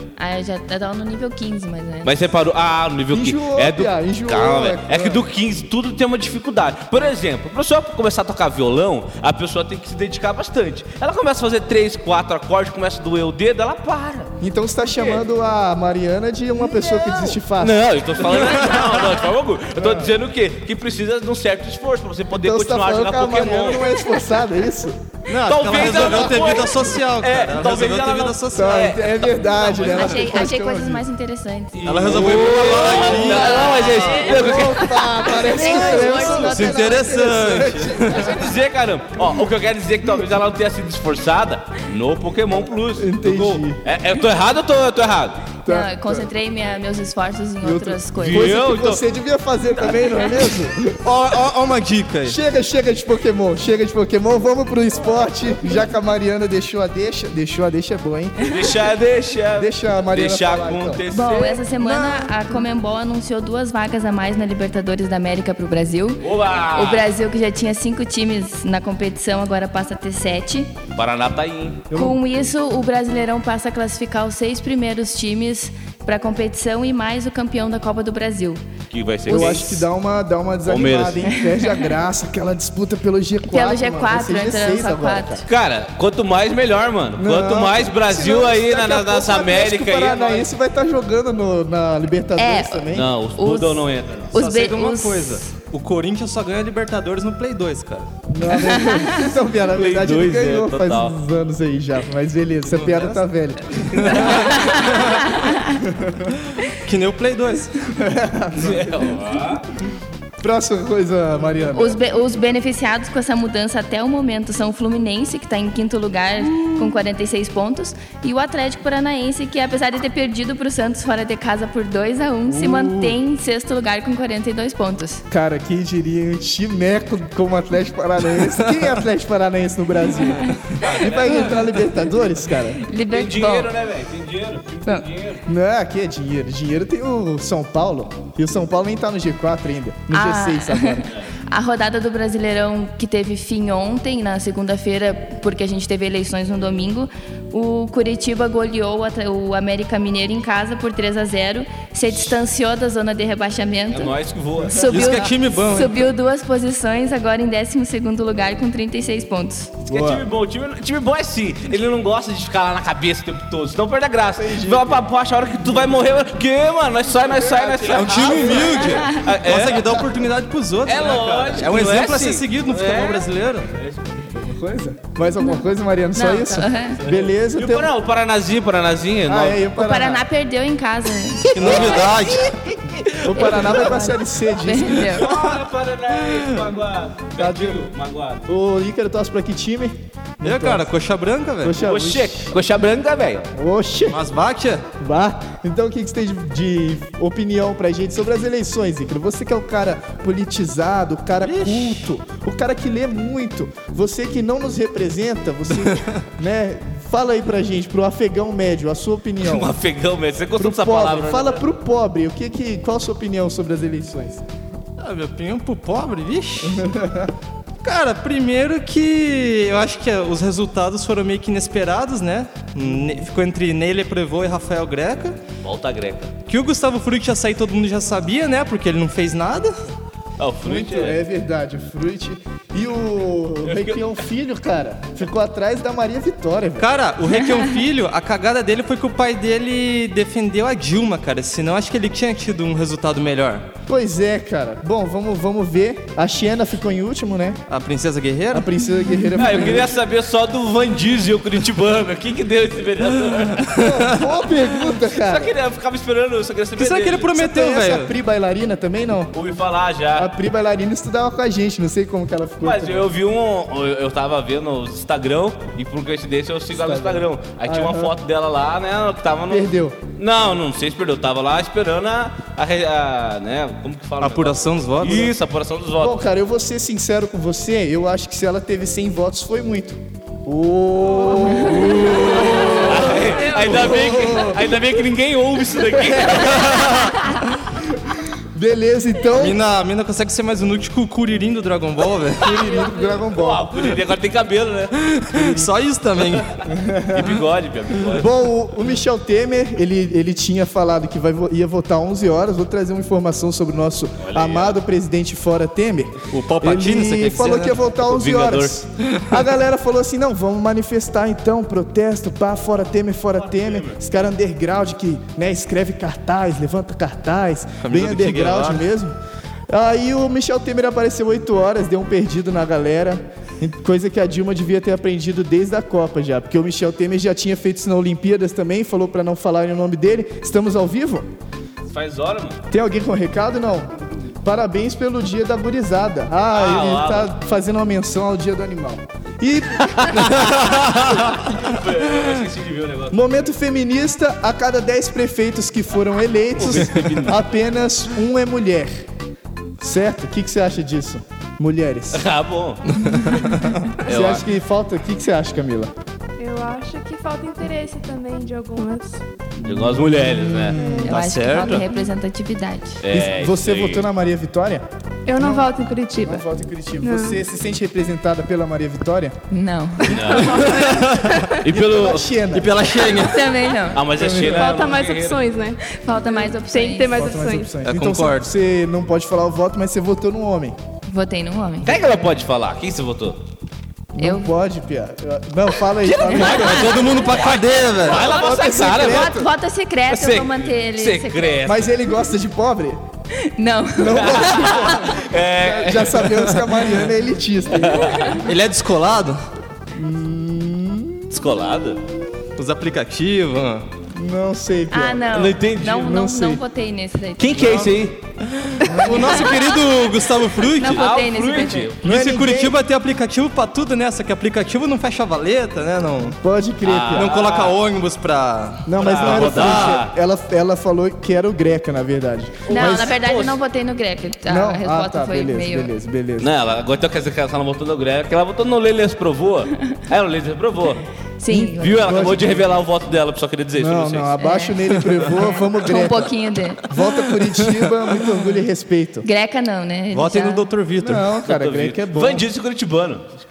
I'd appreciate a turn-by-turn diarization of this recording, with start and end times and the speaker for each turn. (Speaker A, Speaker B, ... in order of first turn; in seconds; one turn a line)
Speaker A: 0.2-2.1
Speaker B: 2.0-14.3
Speaker C: 3.1-5.2
Speaker C: 14.4-17.8
Speaker B: 14.9-15.2
Speaker B: 16.7-23.9
Speaker C: 19.8-20.1
Speaker C: 22.3-25.0
Speaker D: 25.3-28.9
Speaker B: 25.3-30.2
Speaker C: 25.8-26.4
Speaker C: 28.5-31.0
Speaker A: 29.9-31.9
Speaker B: 31.8-35.4
Speaker D: 31.9-34.2
Speaker C: 32.6-38.5
Speaker A: 33.0-37.1
Speaker D: 36.3-38.3
Speaker B: 38.2-45.4
Speaker C: 43.0-43.8
Speaker C: 45.6-46.3
Speaker A: 45.6-48.6
Speaker C: 47.6-51.1
Speaker B: 48.1-49.0
Speaker D: 51.0-52.4
Speaker C: 52.2-58.6
Speaker B: 58.4-61.6
Speaker C: 59.6-61.0
Speaker A: 61.1-70.7
Speaker D: 61.8-62.3
Speaker B: 66.2-67.1
Speaker B: 70.9-71.9
Speaker C: 71.9-72.2
Speaker A: 71.9-78.6
Speaker B: 78.9-79.6
Speaker A: 79.2-79.9
Speaker C: 79.3-85.4
Speaker B: 80.7-81.3
Speaker A: 83.5-85.4
Speaker B: 85.5-90.5
Speaker C: 87.2-93.1
Speaker A: 92.4-95.5
Speaker B: 92.9-94.3
Speaker D: 94.3-98.1
Speaker C: 98.3-104.3
Speaker A: 98.6-99.1
Speaker B: 99.7-101.2
Speaker D: 102.6-103.2
Speaker D: 104.0-105.3
Speaker A: 104.1-105.7
Speaker C: 105.9-106.2
Speaker D: 106.6-107.8
Speaker C: 107.8-108.9
Speaker B: 108.5-109.6
Speaker C: 110.4-112.0
Speaker A: 111.7-125.2
Speaker D: 116.5-116.9
Speaker C: 122.5-123.2
Speaker C: 125.3-132.8
Speaker B: 130.7-131.8
Speaker A: 132.8-133.7
Speaker B: 133.1-135.4
Speaker C: 135.5-141.1
Speaker A: 140.1-154.1
Speaker B: 153.9-155.0
Speaker A: 154.7-159.7
Speaker D: 154.9-156.0
Speaker B: 159.8-169.9
Speaker C: 159.9-160.2
Speaker C: 164.4-165.0
Speaker C: 165.6-166.0
Speaker C: 167.2-168.9
Speaker D: 167.9-173.8
Speaker B: 170.8-174.2
Speaker C: 174.2-177.9
Speaker A: 175.4-177.0
Speaker B: 177.0-179.6
Speaker C: 179.3-180.2
Speaker A: 179.8-181.5
Speaker B: 181.5-183.9
Speaker D: 181.5-182.5
Speaker C: 181.6-182.0
Speaker C: 183.2-185.3
Speaker A: 183.3-185.2
Speaker B: 185.0-188.4
Speaker C: 187.4-187.8
Speaker C: 188.5-190.9
Speaker D: 190.4-191.8
Speaker C: 191.6-192.5
Speaker B: 191.8-193.5
Speaker C: 193.5-194.2
Speaker D: 194.1-194.8
Speaker C: 195.0-209.7
Speaker D: 201.4-202.1
Speaker B: 209.4-211.6
Speaker C: 210.6-214.4
Speaker D: 215.0-216.9
Speaker C: 216.7-217.3
Speaker D: 217.8-225.4
Speaker B: 225.6-226.3
Speaker D: 226.5-229.8
Speaker B: 230.4-231.2
Speaker C: 230.6-236.9
Speaker B: 233.7-234.0
Speaker D: 236.8-243.7
Speaker C: 243.9-247.6
Speaker D: 247.7-248.7
Speaker C: 248.5-249.9
Speaker B: 249.3-254.0
Speaker C: 253.7-255.6
Speaker B: 255.0-257.4
Speaker D: 256.8-258.1
Speaker C: 257.3-259.3
Speaker B: 259.3-260.3
Speaker C: 260.1-263.1
Speaker B: 262.6-276.2
Speaker C: 266.7-268.1
Speaker C: 269.5-270.0
Speaker D: 274.2-275.3
Speaker C: 275.0-275.3
Speaker C: 276.0-284.7
Speaker D: 281.7-282.7
Speaker A: 281.9-284.4
Speaker B: 282.8-287.0
Speaker C: 286.0-287.1
Speaker C: 288.1-289.6
Speaker D: 289.3-292.6
Speaker C: 292.4-293.9
Speaker B: 293.3-295.1
Speaker D: 295.2-296.6
Speaker C: 296.7-297.4
Speaker B: 297.1-298.3
Speaker C: 298.0-319.1
Speaker B: 304.2-304.8
Speaker D: 306.3-307.9
Speaker B: 308.0-308.8
Speaker B: 313.4-314.0
Speaker D: 317.8-318.9
Speaker C: 319.7-331.3
Speaker B: 331.9-332.6
Speaker C: 332.7-333.9
Speaker C: 334.4-341.3
Speaker B: 336.5-337.3
Speaker B: 341.1-343.2
Speaker C: 343.1-349.1
Speaker B: 346.6-347.4
Speaker C: 349.8-352.2
Speaker B: 352.1-353.0
Speaker B: 354.0-354.5
Speaker C: 354.1-355.9
Speaker E: 356.4-359.2
Speaker C: 359.6-361.2
Speaker B: 359.6-361.8
Speaker E: 360.8-361.7
Speaker A: 361.0-363.0
Speaker B: 363.0-364.1
Speaker C: 363.1-364.8
Speaker E: 365.3-366.4
Speaker C: 365.4-369.3
Speaker E: 367.0-367.4
Speaker A: 369.5-370.4
Speaker E: 370.0-371.5
Speaker B: 370.1-370.8
Speaker D: 370.8-371.4
Speaker B: 371.6-372.3
Speaker C: 371.7-372.7
Speaker D: 372.5-373.4
Speaker A: 373.2-374.0
Speaker B: 373.9-375.4
Speaker C: 374.1-374.8
Speaker E: 374.4-377.8
Speaker A: 375.8-377.4
Speaker C: 377.1-380.8
Speaker D: 377.8-378.5
Speaker A: 381.1-381.9
Speaker B: 381.8-383.4
Speaker C: 384.1-387.0
Speaker A: 384.2-384.5
Speaker B: 386.0-389.4
Speaker D: 386.5-388.3
Speaker C: 388.1-389.5
Speaker A: 388.2-391.6
Speaker B: 390.1-391.9
Speaker C: 391.6-393.0
Speaker A: 393.5-395.1
Speaker C: 394.0-398.3
Speaker B: 394.1-396.5
Speaker B: 397.7-398.4
Speaker D: 398.4-399.4
Speaker C: 399.9-401.4
Speaker B: 401.3-402.0
Speaker D: 402.6-403.9
Speaker C: 404.1-405.4
Speaker A: 404.9-407.8
Speaker B: 405.3-406.2
Speaker C: 405.9-406.6
Speaker B: 407.4-408.2
Speaker D: 407.6-407.9
Speaker D: 408.5-411.1
Speaker C: 408.8-409.5
Speaker A: 409.1-409.8
Speaker A: 410.7-411.9
Speaker B: 410.9-412.0
Speaker C: 412.0-412.8
Speaker D: 412.0-416.4
Speaker C: 416.4-417.3
Speaker B: 416.8-417.8
Speaker D: 417.1-420.0
Speaker C: 418.9-423.1
Speaker B: 419.0-420.1
Speaker B: 422.7-423.6
Speaker A: 422.7-425.9
Speaker C: 424.4-426.5
Speaker B: 426.4-431.1
Speaker A: 431.4-432.2
Speaker C: 431.5-432.7
Speaker B: 431.7-434.3
Speaker C: 433.8-436.3
Speaker A: 434.4-436.9
Speaker C: 436.9-439.2
Speaker D: 437.3-437.9
Speaker A: 439.2-440.7
Speaker D: 440.1-441.3
Speaker C: 441.0-442.5
Speaker B: 441.4-443.4